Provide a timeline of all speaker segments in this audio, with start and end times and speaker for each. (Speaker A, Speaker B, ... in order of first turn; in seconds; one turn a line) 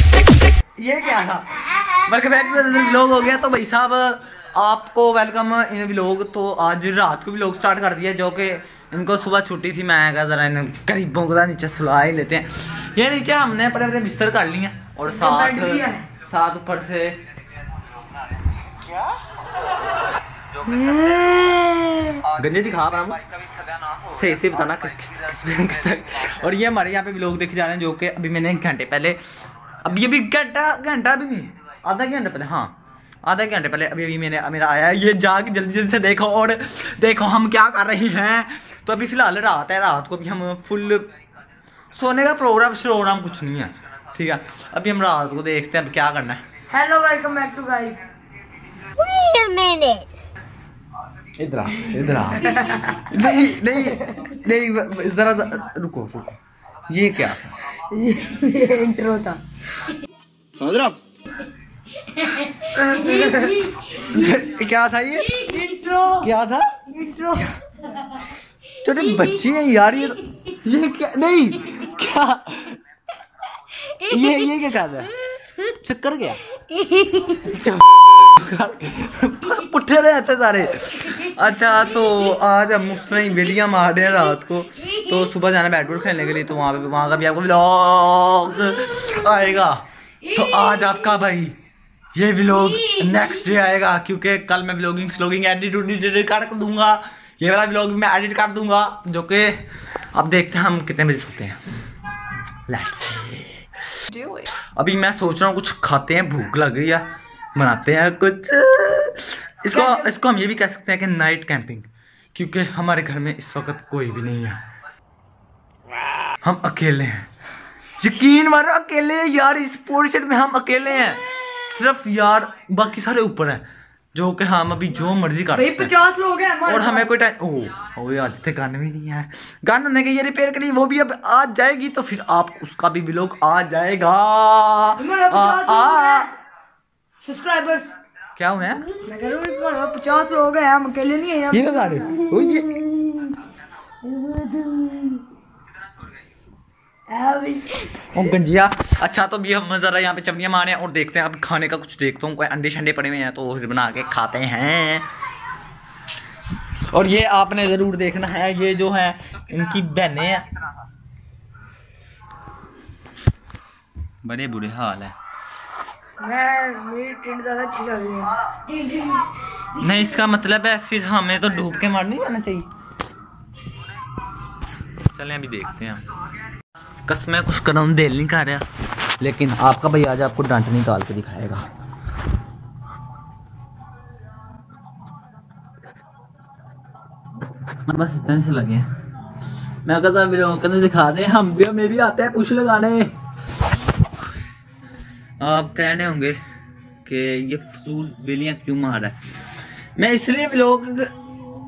Speaker A: 0.8-17.2
Speaker B: 15.1-16.1
Speaker B: 20.6-22.1
Speaker A: 22.2-23.2
Speaker A: 24.0-29.2
Speaker A: 29.8-41.1
Speaker A: 41.9-46.4
Speaker B: 46.7-48.1
Speaker C: 49.0-50.0
Speaker A: 51.4-57.8
Speaker B: 52.4-53.2
Speaker B: 53.8-54.3
Speaker B: 57.8-59.4
Speaker A: 60.5-61.0
Speaker C: 62.1-62.8
Speaker B: 62.7-64.0
Speaker A: 63.2-65.5
Speaker B: 65.3-66.3
Speaker A: 66.2-66.8
Speaker B: 66.9-68.2
Speaker A: 68.8-72.8
Speaker C: 69.0-69.5
Speaker A: 73.9-76.4
Speaker C: 76.6-77.5
Speaker A: 77.3-91.5
Speaker A: 92.1-101.6
Speaker A: 102.7-114.6
Speaker A: 116.4-117.3
Speaker A: 118.0-125.9
Speaker B: 125.5-127.1
Speaker A: 126.7-136.3
Speaker B: 135.0-136.3
Speaker B: 137.2-137.9
Speaker A: 138.3-138.9
Speaker B: 139.0-142.1
Speaker A: 141.5-143.2
Speaker C: 142.3-142.8
Speaker C: 144.0-145.2
Speaker C: 147.1-148.2
Speaker A: 148.1-155.0
Speaker A: 156.8-160.4
Speaker A: 164.2-165.1
Speaker B: 166.2-168.4
Speaker C: 168.5-170.4
Speaker A: 169.8-172.7
Speaker A: 175.1-176.1
Speaker A: 177.1-178.6
Speaker A: 179.2-181.7
Speaker A: 187.8-188.9
Speaker A: 189.8-193.1
Speaker A: 195.4-196.4
Speaker A: 197.0-199.2
Speaker A: 200.0-201.1